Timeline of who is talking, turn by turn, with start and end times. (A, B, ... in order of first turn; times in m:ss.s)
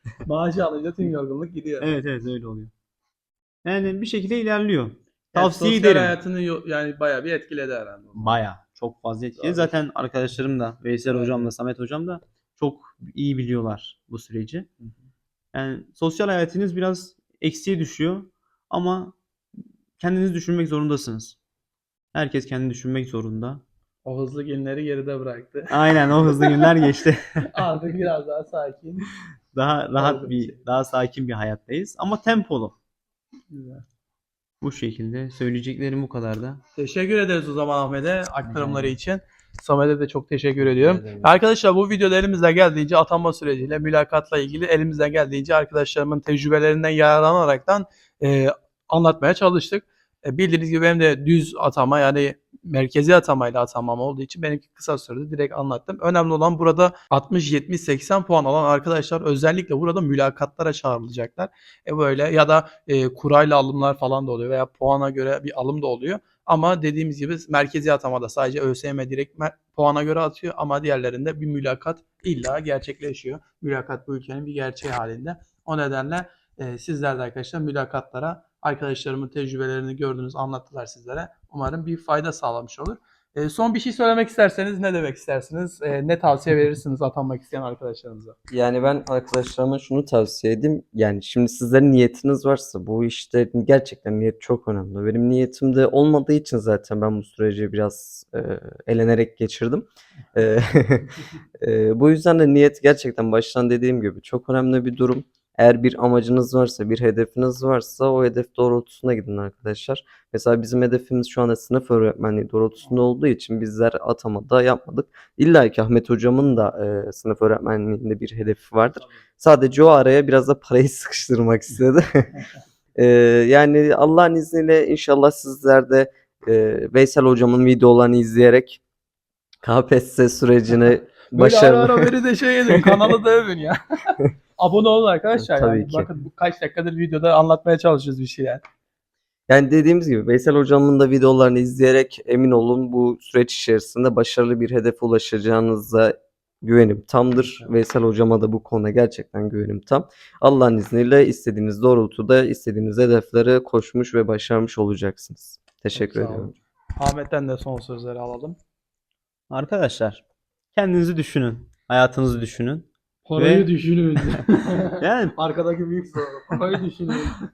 0:00.3-0:01.9 A
0:01.8-0:02.7 B
0:03.6-0:06.2 B
0:05.3-0:08.4 A
0:08.2-0:14.7 B
0:09.4-0:09.7 A
0:11.1-0:11.5 A
0:15.5-0:19.2 B
0:20.0-0:21.4 B
0:22.1-0:23.6 B
0:24.0-0:26.8 A
0:25.7-0:27.5 B
0:27.4-0:29.1 A
0:29.5-0:32.8 B
0:30.0-0:30.6 A
0:33.5-0:33.8 A
0:34.6-0:36.6 B
0:36.8-1:28.4 A
0:38.5-0:39.0 C
0:40.6-0:41.3 C
1:28.5-2:02.3 C
2:03.0-2:08.8 C
2:09.6-2:12.1 C
2:11.3-2:18.6 A
2:12.7-2:13.1 C
2:15.4-2:16.1 C
2:19.5-2:36.5 C
2:35.9-2:38.6 A
2:39.5-2:40.2 B
2:40.7-2:45.4 B
2:43.3-2:47.4 A